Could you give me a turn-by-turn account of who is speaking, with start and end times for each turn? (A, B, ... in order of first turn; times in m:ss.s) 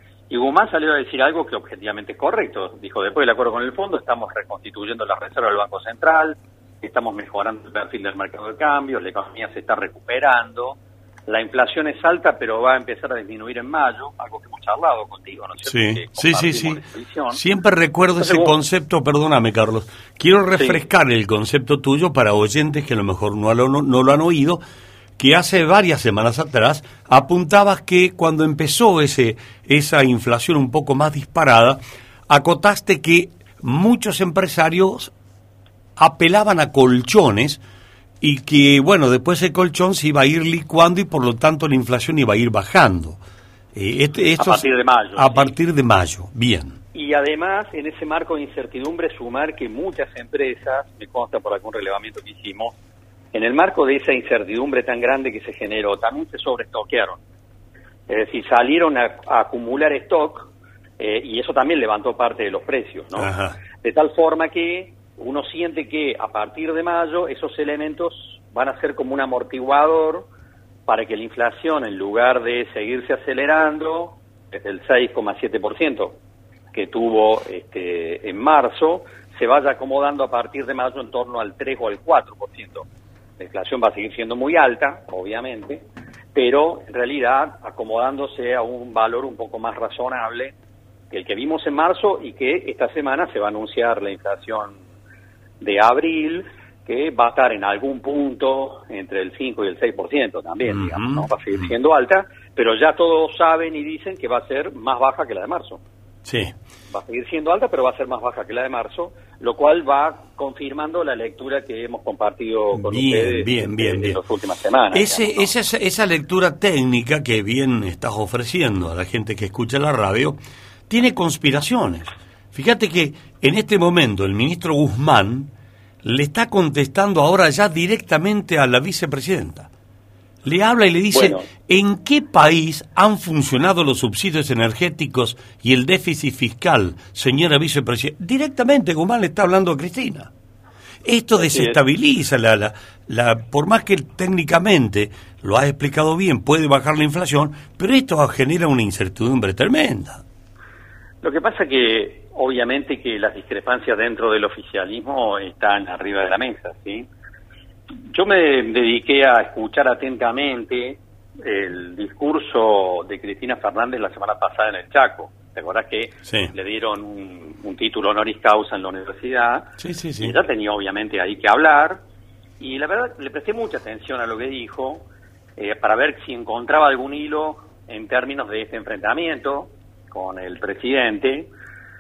0:00.3-0:17.4 A
0:15.7-0:16.8 B
0:17.3-0:24.6 B
0:18.2-0:18.5 A
0:25.2-0:35.1 B
0:36.0-0:37.6 B
0:38.2-0:43.2 B
0:43.7-0:46.8 B
0:44.4-0:45.6 A
0:46.9-0:52.8 A
0:53.3-0:57.2 A
0:58.1-1:10.3 A
1:03.2-1:03.6 B
1:10.9-1:16.2 A
1:16.7-1:22.9 A
1:23.4-1:25.8 A
1:26.3-1:30.6 A
1:31.1-1:34.8 A
1:35.6-1:45.8 A
1:40.6-1:41.7 B
1:46.2-1:46.5 B
1:46.9-1:55.5 A
1:52.8-1:54.2 B
1:54.9-2:05.5 B
2:06.0-2:09.7 B
2:10.4-2:20.3 B
2:11.1-2:11.5 A
2:21.0-2:30.2 B
2:21.4-2:21.8 A
2:31.2-2:37.1 A
2:38.1-2:52.0 A
2:46.3-2:46.5 B
2:49.8-2:50.4 B
2:52.6-2:55.0 A
2:55.6-3:01.5 A